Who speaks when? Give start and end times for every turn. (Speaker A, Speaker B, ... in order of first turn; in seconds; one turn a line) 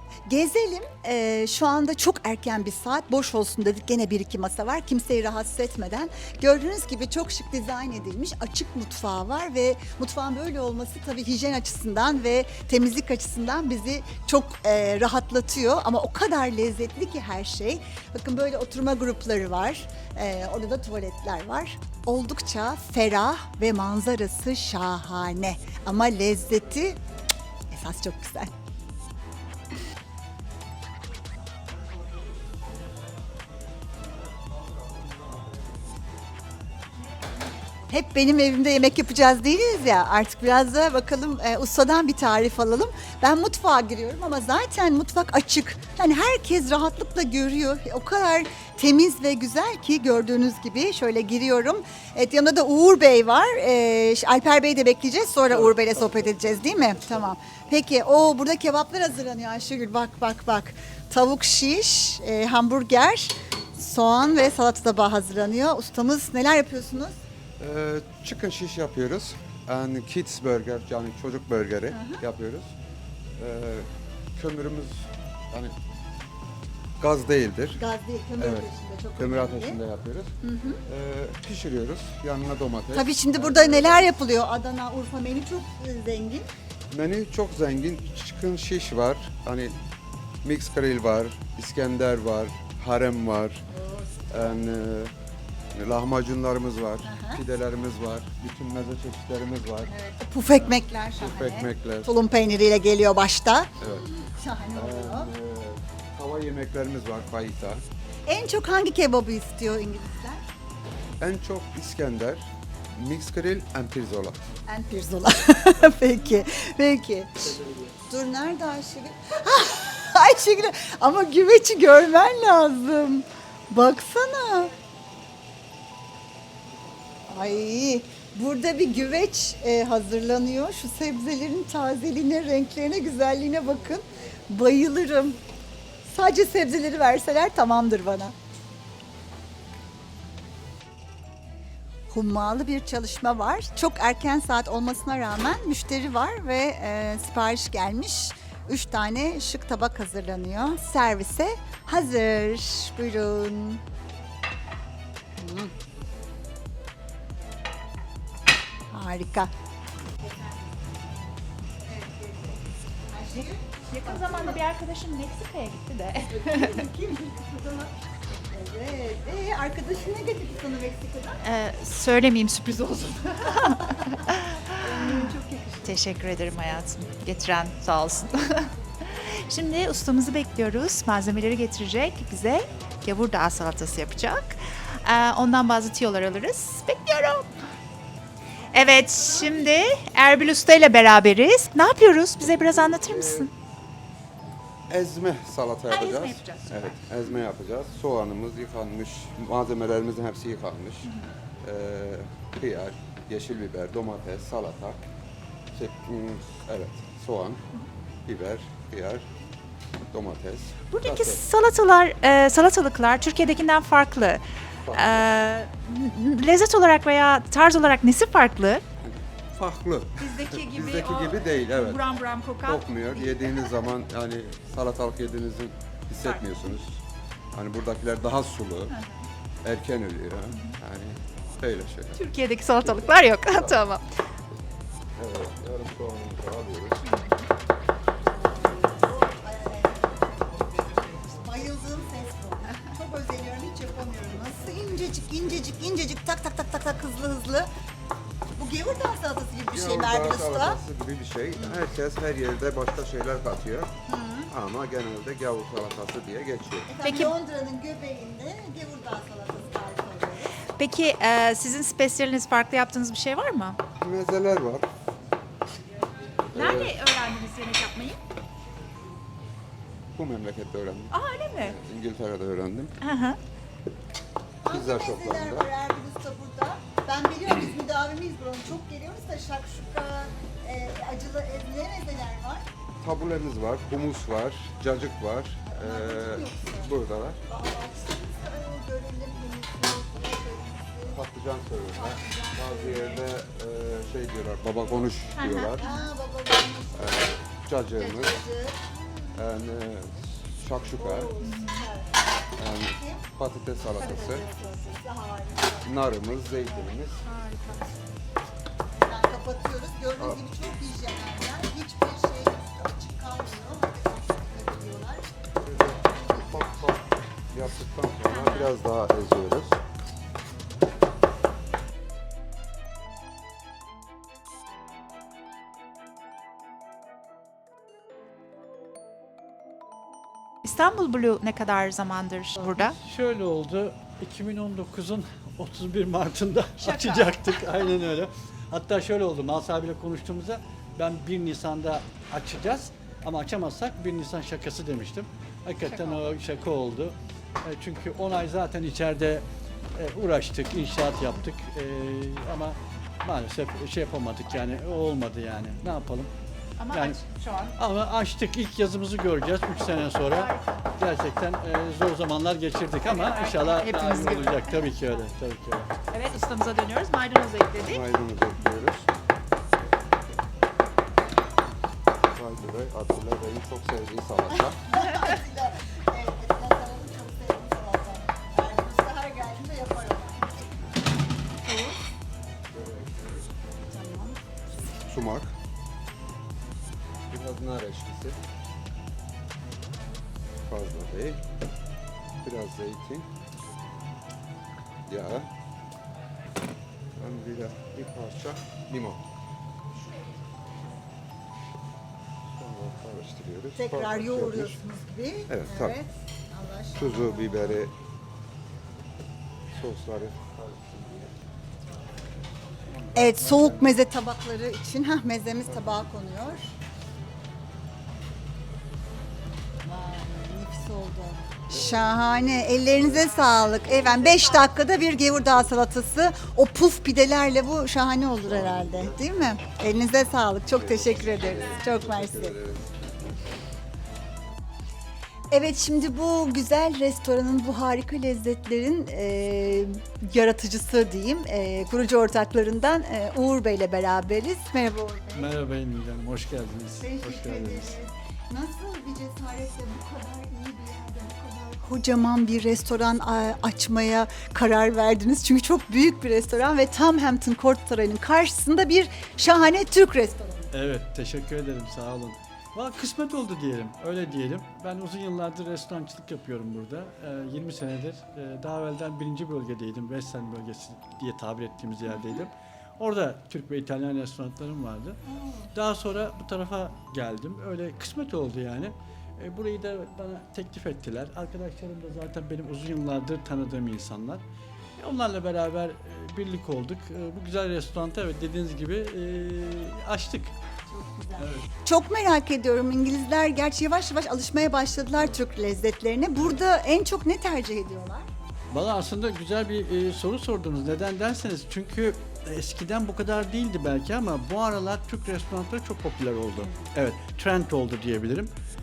Speaker A: 0.3-27.0
Speaker A: 27.7-28.5
Speaker A: 37.9-67.2
Speaker B: 55.8-56.2
Speaker C: 67.6-72.7
Speaker A: 71.9-72.2
Speaker C: 73.4-75.8
Speaker C: 77.0-77.8
Speaker A: 77.7-79.8
Speaker C: 78.4-84.2
Speaker A: 80.4-80.8
Speaker A: 82.9-86.5
Speaker C: 86.9-89.8
Speaker C: 90.4-93.7
Speaker A: 93.7-94.6
Speaker C: 94.3-95.1
Speaker C: 95.7-99.9
Speaker A: 97.0-97.4
Speaker A: 99.9-105.3
Speaker C: 101.2-102.1
Speaker C: 103.8-104.0
Speaker C: 104.7-107.8
Speaker A: 108.3-110.5
Speaker C: 111.2-114.4
Speaker A: 114.7-124.7
Speaker A: 127.3-135.4
Speaker A: 136.1-138.3
Speaker A: 142.1-153.8
Speaker A: 155.4-155.7
Speaker A: 158.9-159.5
Speaker A: 160.2-161.1
Speaker A: 161.8-164.6
Speaker D: 163.4-166.8
Speaker A: 166.2-167.9
Speaker A: 168.5-171.4
Speaker D: 171.4-175.3
Speaker A: 173.4-174.2
Speaker A: 174.7-176.0
Speaker D: 175.8-187.5
Speaker A: 188.7-190.2
Speaker D: 188.7-193.5
Speaker C: 192.4-193.5
Speaker C: 194.9-201.1
Speaker D: 195.9-196.9
Speaker C: 201.6-205.0
Speaker C: 205.7-207.6
Speaker C: 208.3-209.2
Speaker C: 210.1-211.4
Speaker D: 210.9-218.8
Speaker C: 214.9-215.4
Speaker C: 219.0-222.1
Speaker D: 220.2-223.7
Speaker C: 222.6-227.0
Speaker D: 226.2-226.7
Speaker C: 227.6-228.9
Speaker D: 228.9-229.2
Speaker C: 229.6-232.2
Speaker D: 232.2-234.1
Speaker C: 232.9-233.7
Speaker C: 235.2-237.0
Speaker D: 237.1-237.5
Speaker A: 238.1-247.7
Speaker A: 248.6-250.8
Speaker C: 249.7-253.9
Speaker A: 251.6-251.8
Speaker A: 254.1-254.5
Speaker C: 254.5-256.9
Speaker A: 256.9-260.6
Speaker D: 257.0-257.4
Speaker D: 260.7-263.8
Speaker C: 264.0-264.9
Speaker C: 266.5-267.0
Speaker D: 266.5-268.2
Speaker C: 270.1-272.9
Speaker D: 271.1-271.8
Speaker D: 273.0-273.4
Speaker A: 274.6-282.6
Speaker C: 274.7-275.7
Speaker C: 283.0-287.4
Speaker A: 285.7-286.9
Speaker A: 287.5-291.2
Speaker C: 291.1-295.8
Speaker A: 291.9-293.2
Speaker D: 295.3-296.1
Speaker A: 295.8-297.3
Speaker C: 296.9-298.4
Speaker A: 298.0-298.8
Speaker C: 299.3-301.3
Speaker A: 301.0-303.3
Speaker D: 301.4-301.9
Speaker C: 302.6-304.5
Speaker D: 304.0-304.4
Speaker A: 304.0-306.1
Speaker C: 305.8-307.2
Speaker D: 306.7-307.9
Speaker A: 309.0-316.8
Speaker C: 315.6-319.8
Speaker D: 318.3-318.7
Speaker D: 330.6-332.9
Speaker B: 332.6-349.4
Speaker D: 336.8-337.9
Speaker D: 345.8-346.3
Speaker B: 349.9-356.3
Speaker D: 356.8-357.8
Speaker B: 356.9-357.2
Speaker B: 357.8-365.9
Speaker D: 359.8-360.9
Speaker D: 363.0-364.9
Speaker D: 366.1-368.0
Speaker C: 367.9-369.1
Speaker C: 372.3-374.9
Speaker A: 374.5-380.9
Speaker A: 381.6-382.0
Speaker C: 382.7-383.4
Speaker A: 383.9-384.9
Speaker C: 385.0-385.5
Speaker C: 387.3-388.4
Speaker C: 390.7-391.4
Speaker C: 392.4-393.3
Speaker C: 395.1-395.5
Speaker C: 397.2-399.2
Speaker C: 402.5-404.8
Speaker A: 403.8-407.8
Speaker C: 405.5-406.0
Speaker C: 406.9-407.9
Speaker C: 409.7-411.3
Speaker A: 413.1-416.7
Speaker C: 413.2-413.4
Speaker C: 415.6-416.4
Speaker A: 419.8-432.6
Speaker C: 421.7-424.3
Speaker D: 424.3-424.7
Speaker C: 428.4-429.3
Speaker C: 430.7-432.9
Speaker A: 435.5-445.6
Speaker B: 445.3-448.0
Speaker A: 447.0-460.7
Speaker B: 460.7-475.2
Speaker A: 472.1-472.4
Speaker A: 475.2-475.7
Speaker B: 475.7-484.4
Speaker B: 485.0-490.5
Speaker A: 490.9-498.3
Speaker B: 491.4-491.7
Speaker B: 498.7-508.5
Speaker A: 506.6-506.9